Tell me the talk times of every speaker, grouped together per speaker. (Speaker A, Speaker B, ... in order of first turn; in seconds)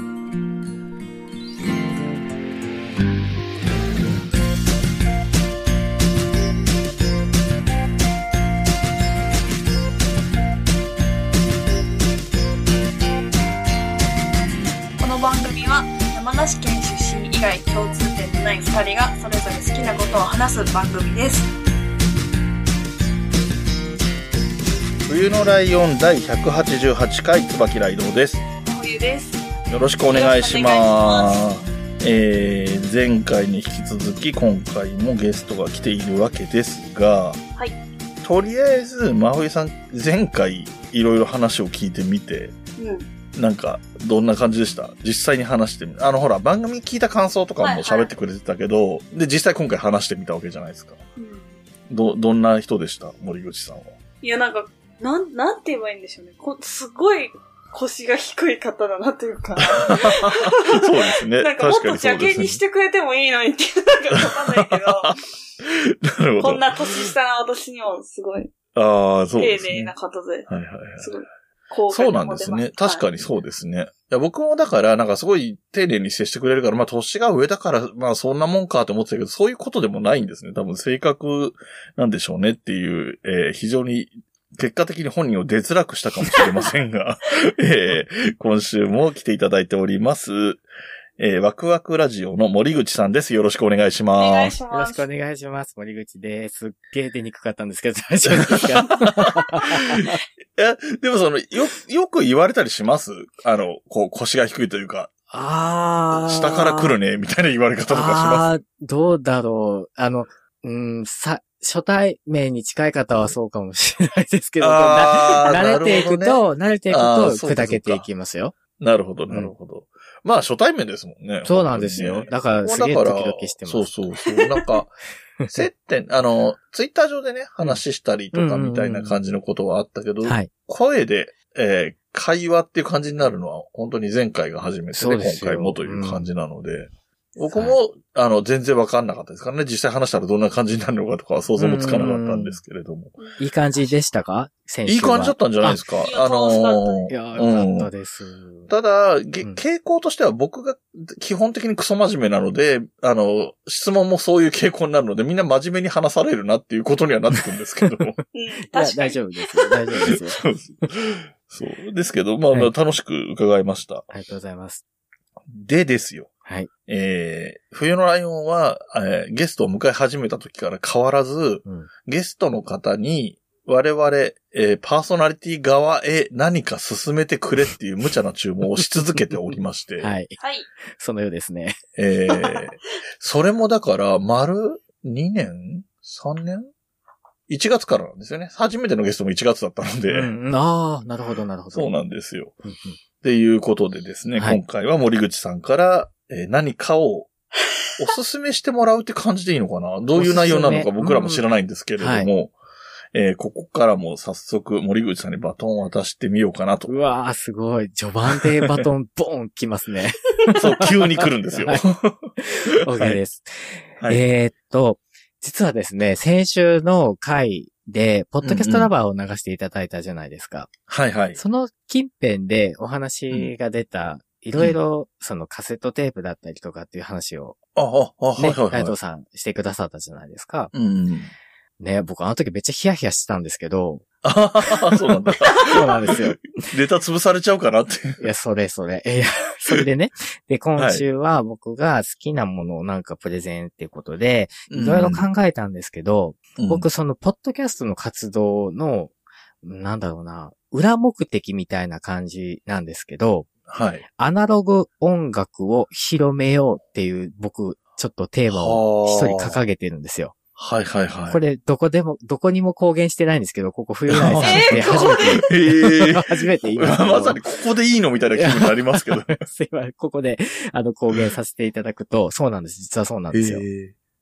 Speaker A: 15.0-21.5, 28.6-29.4, 30.1-31.5, 42.8-43.1, 47.6-48.1, 51.2-51.5, 54.2-65.2, 66.4-68.5, 69.3-73.0, 94.2-95.1, 146.0-147.1, 158.3-159.7, 180.4-180.7, 264.4-265.4
Speaker B: 25.1-28.4, 29.7-37.4, 38.2-42.5, 43.3-51.0, 51.9-54.0, 59.7-62.6, 64.1-67.1, 68.8-69.9, 70.5-71.2, 71.9-90.6, 91.2-94.6, 98.2-105.1, 106.2-108.5, 114.6-118.0, 118.8-125.0, 125.5-143.2, 144.9-147.9, 148.7-158.2, 160.1-164.1, 165.5-166.3, 166.9-180.1, 182.0-186.7, 187.5-190.3, 191.7-192.6, 193.2-197.3, 198.0-202.5, 203.1-206.9, 210.6-212.3, 212.9-213.2, 218.4-218.9, 220.9-221.4, 227.8-228.9, 230.7-231.3, 234.2-238.2, 240.8-241.0, 244.7-245.2, 246.6-246.8, 253.7-254.0, 258.5-259.6, 260.6-261.4, 264.1-269.4, 273.3-273.9
Speaker C: 94.7-100.2, 105.3-107.0, 107.9-118.5, 121.4-124.0, 125.4-125.7, 128.3-129.2, 130.2-130.5, 134.9-136.3, 137.5-137.8, 141.6-142.6, 143.4-145.8, 147.1-148.7, 158.7-160.9, 164.1-164.8, 180.0-180.3, 181.0-181.8, 190.1-191.9, 192.6-193.0, 200.1-201.4, 202.0-202.3, 206.9-211.8, 212.4-220.7, 221.3-227.6, 228.4-230.7, 231.8-234.1, 235.7-236.5, 238.2-253.5, 254.2-260.3, 261.3-267.4, 268.4-273.6